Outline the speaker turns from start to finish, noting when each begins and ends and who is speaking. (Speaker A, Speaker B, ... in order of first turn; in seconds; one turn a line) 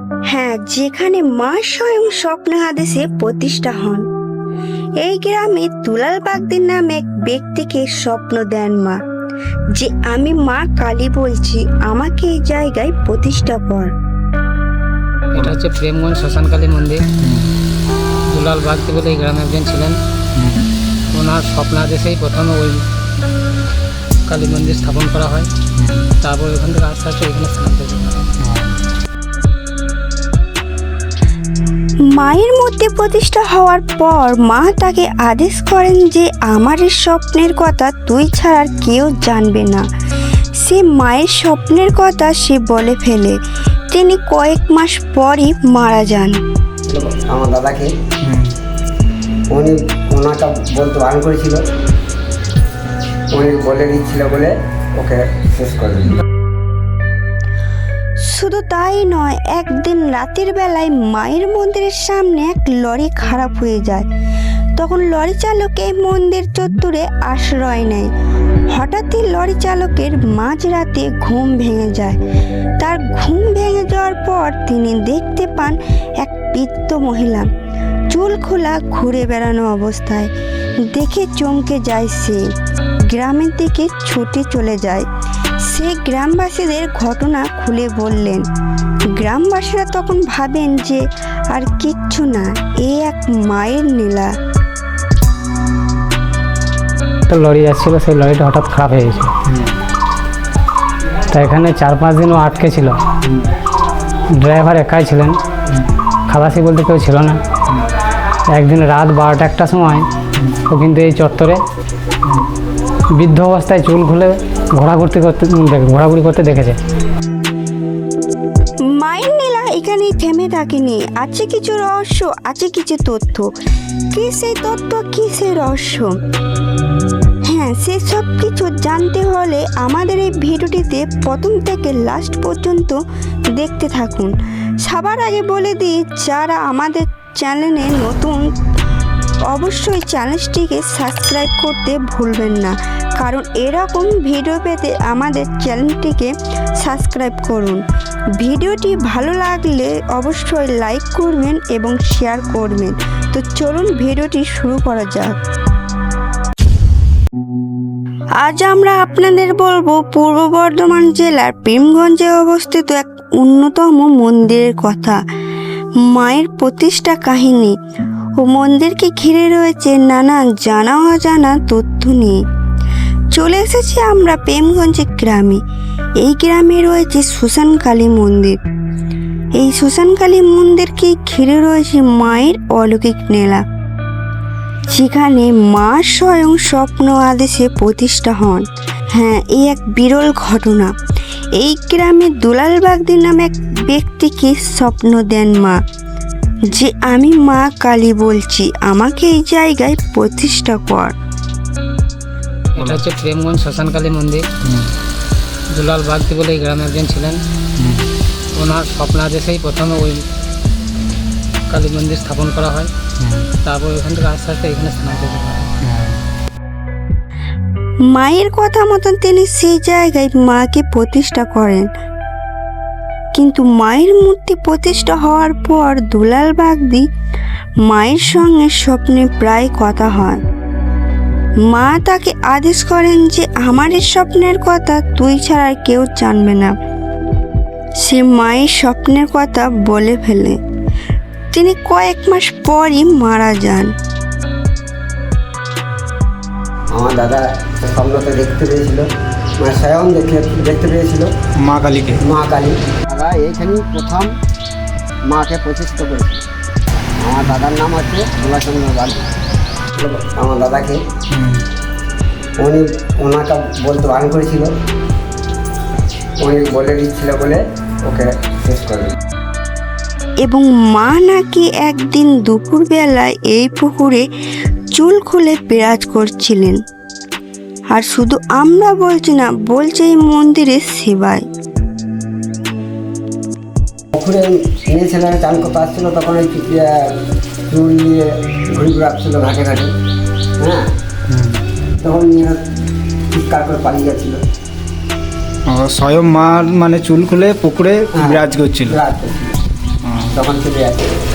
Speaker A: 0.3-4.1
Speaker A: 5.0-9.0
Speaker A: 9.8-13.9
Speaker B: 15.3-17.1
Speaker C: 17.2-17.5
Speaker B: 18.3-20.0
Speaker C: 20.4-20.7
Speaker B: 21.1-22.9
Speaker B: 24.3-25.5
Speaker C: 25.8-26.1
Speaker B: 26.2-28.3
Speaker C: 28.4-28.8
Speaker A: 32.1-39.9
Speaker A: 40.6-43.4
Speaker A: 43.9-46.4
Speaker D: 46.9-47.9
Speaker C: 48.2-48.5
Speaker D: 49.5-51.6
Speaker D: 53.3-56.2
Speaker A: 58.2-64.1
Speaker A: 64.8-68.1
Speaker A: 68.7-72.2
Speaker A: 72.8-77.5
Speaker A: 78.1-80.3
Speaker A: 80.9-82.4
Speaker A: 83.1-85.1
Speaker A: 85.7-88.4
Speaker A: 89.2-94.3
Speaker B: 97.3-99.3
Speaker C: 99.5-99.8
Speaker B: 101.3-103.0
Speaker B: 104.3-105.4
Speaker B: 106.3-107.4
Speaker B: 108.5-110.1
Speaker B: 110.7-111.6
Speaker C: 112.2-112.5
Speaker B: 113.2-116.8
Speaker A: 118.9-123.5
Speaker A: 124.1-126.2
Speaker A: 127.5-133.0
Speaker A: 133.6-138.4
Speaker A: 139.5-147.8
Speaker A: 148.4-155.4
Speaker A: 158.4-165.2
Speaker A: 166.1-167.8
Speaker A: 168.4-172.4
Speaker A: 173.3-175.6
Speaker A: 176.2-178.6
Speaker A: 179.6-183.6
Speaker A: 184.9-190.9
Speaker A: 191.6-195.8
Speaker A: 196.7-201.2
Speaker B: 202.8-204.5
Speaker C: 202.8-203.0
Speaker C: 204.6-204.9
Speaker B: 205.7-207.4
Speaker C: 207.8-208.1
Speaker B: 208.6-210.3
Speaker B: 211.7-212.9
Speaker C: 213.2-213.5
Speaker B: 213.6-215.7
Speaker C: 215.8-216.2
Speaker A: 218.1-221.9
Speaker A: 223.3-227.1
Speaker A: 227.9-230.4
Speaker A: 231.7-236.7
Speaker A: 238.0-240.6
Speaker A: 241.5-243.9
Speaker D: 246.9-249.1
Speaker D: 249.6-251.3
Speaker C: 251.6-252.2
Speaker D: 252.2-254.3
Speaker D: 255.3-256.4
Speaker D: 257.2-259.2
Speaker D: 260.0-261.0
Speaker C: 261.3-261.6
Speaker D: 262.6-264.7
Speaker D: 266.4-269.1
Speaker A: 270.4-274.2
Speaker A: 274.9-276.8
Speaker A: 277.9-281.4
Speaker D: 284.1-287.2
Speaker D: 287.7-289.9
Speaker D: 290.6-290.9
Speaker C: 291.3-291.6
Speaker D: 292.0-292.6
Speaker D: 293.3-294.4
Speaker C: 295.7-299.0
Speaker D: 298.1-299.6
Speaker C: 300.0-300.3
Speaker D: 300.3-301.1